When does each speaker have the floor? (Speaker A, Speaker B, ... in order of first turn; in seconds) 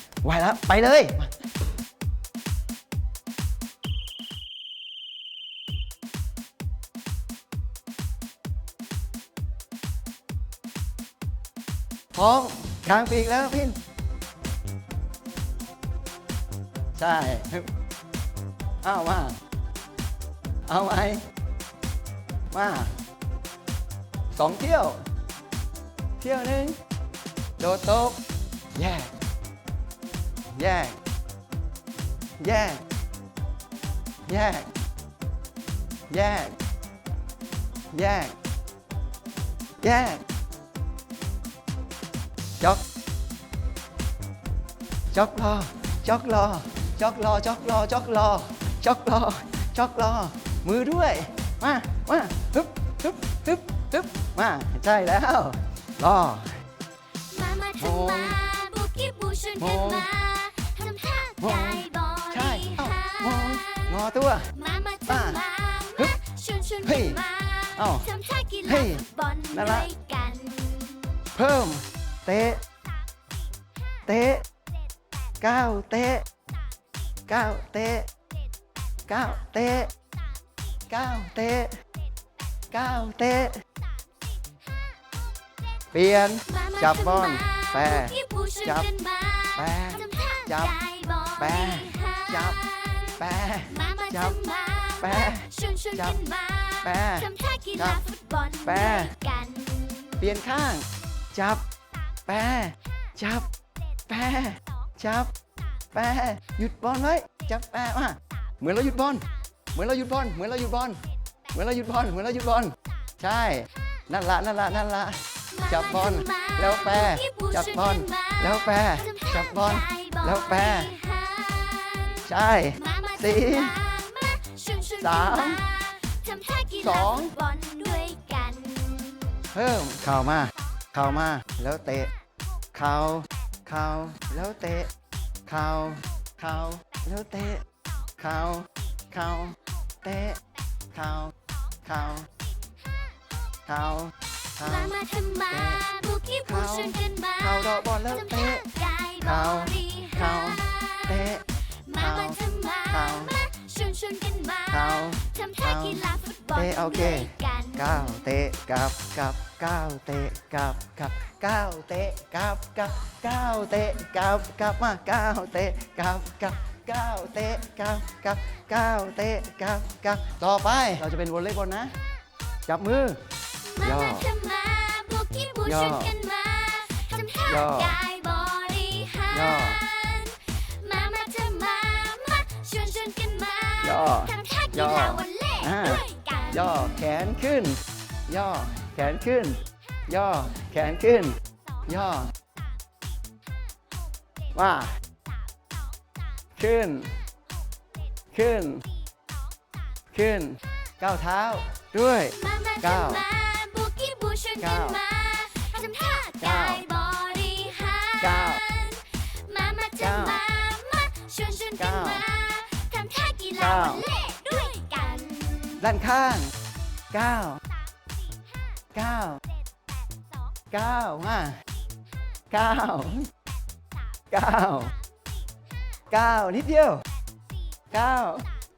Speaker A: 0.2-1.3, 12.1-13.8, 16.9-17.7, 18.8-19.4, 20.7-21.2, 22.5-22.9, 24.4-25.0, 26.2-26.8, 27.6-28.2, 28.8-29.1, 30.5-30.9, 32.4-32.8, 34.3-34.7, 36.1-36.5, 37.9-38.3, 39.8-40.2, 45.1-56.5, 57.8-58.4, 59.6-60.1, 61.4-64.5, 65.1-65.4, 66.8-67.2, 67.7-68.1, 68.7-69.9, 71.3-72.6, 74.1-74.4, 75.4-76.2, 77.3-78.1, 79.1-79.9, 80.9-81.8, 82.7-83.6, 85.9-88.9, 89.5-90.8, 91.4-92.6, 93.1-94.4, 95.0-96.2, 96.8-98.0, 98.6-99.1, 100.2-101.6, 102.2-103.5, 104.1-105.3, 105.9-111.0, 111.5-120.9, 122.2-123.8, 125.0-125.6, 126.8-127.3, 129.5-132.1, 132.7-134.9, 135.5-137.6, 138.2-140.4, 140.9-142.3, 143.7-145.8, 146.5-148.7, 149.2-153.4, 154.7-171.9, 172.7-173.2, 173.8-174.3, 175.6-176.2, 177.4-178.0, 179.3-179.8, 183.8-191.4, 191.9-192.3, 194.6-194.9, 196.6-197.1, 198.3-198.8, 200.1-203.3, 204.6-205.0, 206.4-206.8, 208.2-208.6, 210.0-210.4, 211.8-212.3, 213.6-214.1, 215.8-216.5, 217.1-217.6, 218.9-219.4, 220.7-221.6, 222.5-223.3, 224.3-224.9, 226.1-227.0, 227.9-228.5
Speaker B: 57.3-63.9, 64.5-71.1, 86.5-100.2, 115.5-122.3, 122.8-129.4, 144.7-158.0, 173.8-186.7, 202.4-215.8